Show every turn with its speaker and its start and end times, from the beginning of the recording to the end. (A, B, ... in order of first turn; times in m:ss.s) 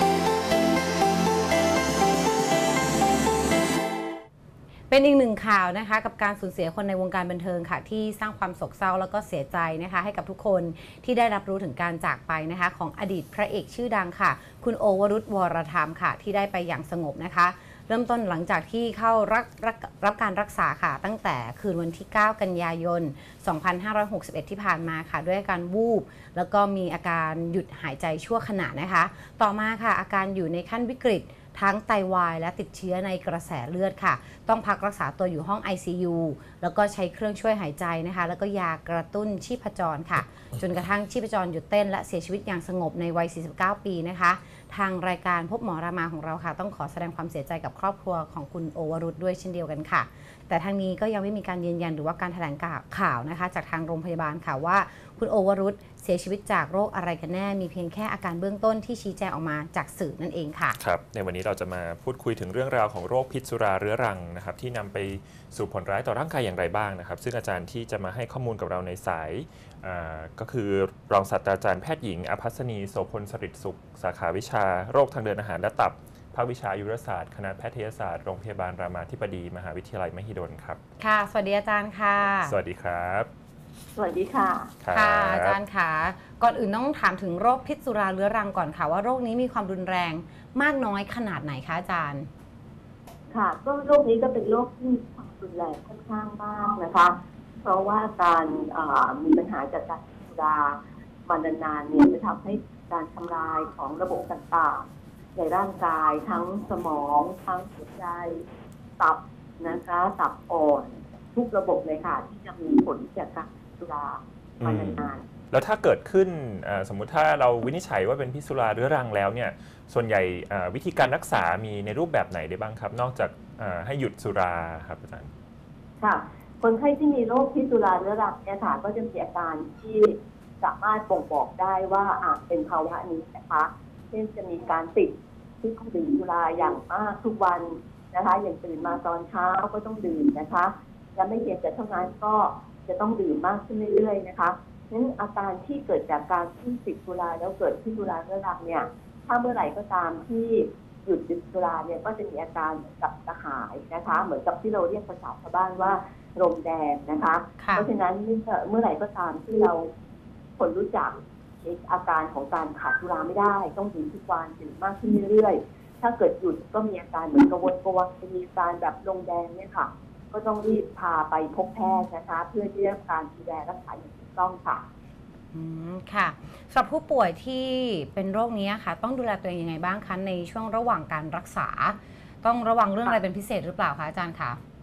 0:04.9-1:00.8 A
1:00.8-1:20.8 B
1:21.0-1:22.6 A
1:22.4-1:23.3 B
1:24.0-1:24.7 C
1:24.8-1:25.6 B
1:24.9-1:32.3 A
1:33.3-1:48.4 C
1:49.0-1:55.2 C
1:54.6-2:05.3 B
2:06.0-2:39.9 C
2:37.6-2:37.9 A
2:40.6-2:54.9 C
2:55.5-3:04.6 A